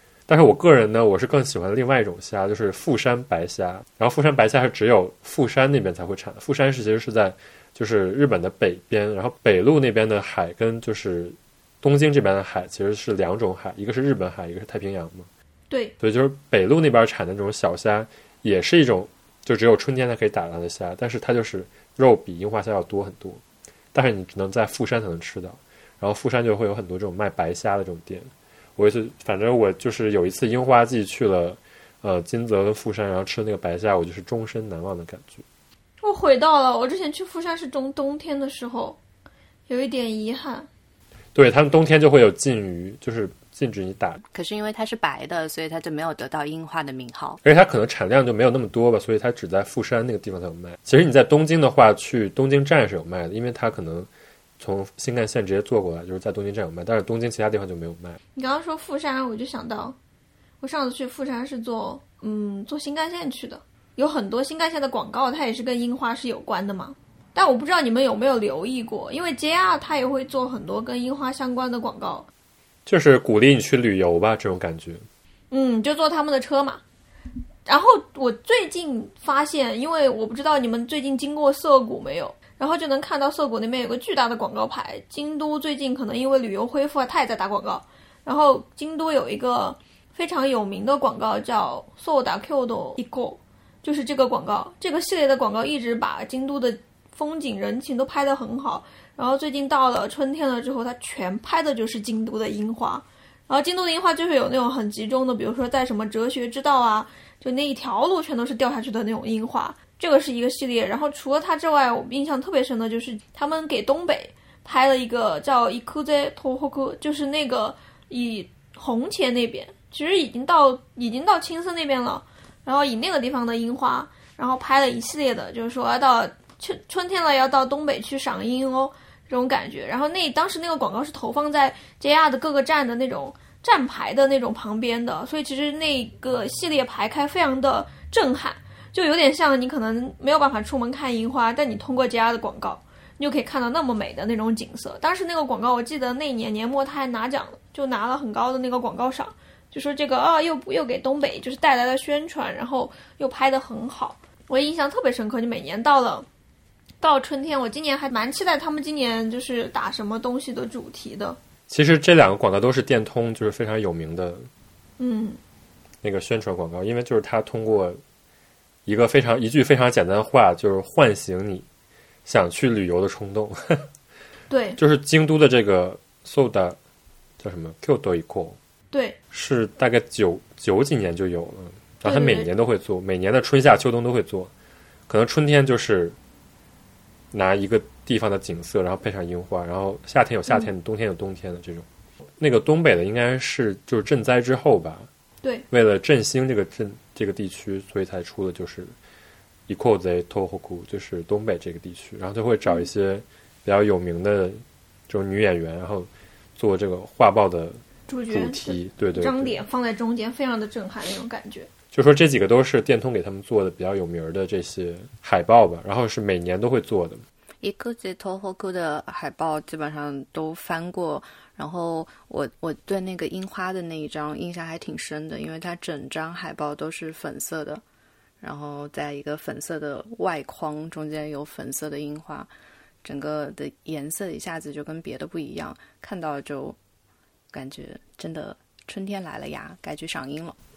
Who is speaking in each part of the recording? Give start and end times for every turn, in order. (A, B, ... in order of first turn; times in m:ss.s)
0:00.3-0:15.3 A
0:16.0-0:23.4 A
0:23.9-0:35.4 A
0:36.0-0:39.0 B
0:39.7-0:40.7 B
0:41.3-0:44.2 A
0:44.3-0:47.4 C
0:47.4-0:58.2 A
0:58.3-1:00.0 B
1:00.6-1:12.3 B
1:12.8-1:15.0 A
1:15.5-1:16.8 B
1:17.6-2:36.3 B
2:37.0-2:41.4 B
2:41.7-2:44.5 A
2:45.0-2:45.4 B
2:46.0-2:48.0 A
2:48.8-2:51.6 A
2:52.2-2:53.9 A
2:54.5-2:54.8 B
2:54.8-2:56.8 A
2:57.4-2:58.6 A
2:58.9-2:59.2 B
2:59.3-3:04.5 A
3:02.0-3:02.5 B
3:05.1-3:06.2 A
3:07.3-3:11.8 A
3:12.4-3:15.1 A
3:15.7-3:18.9 A
3:19.7-3:29.6 A
3:28.1-3:31.7 B
3:31.9-3:37.2 A
3:37.6-3:47.8 C
3:48.4-3:52.5 C
3:53.0-3:56.8 C
3:57.5-4:00.5 C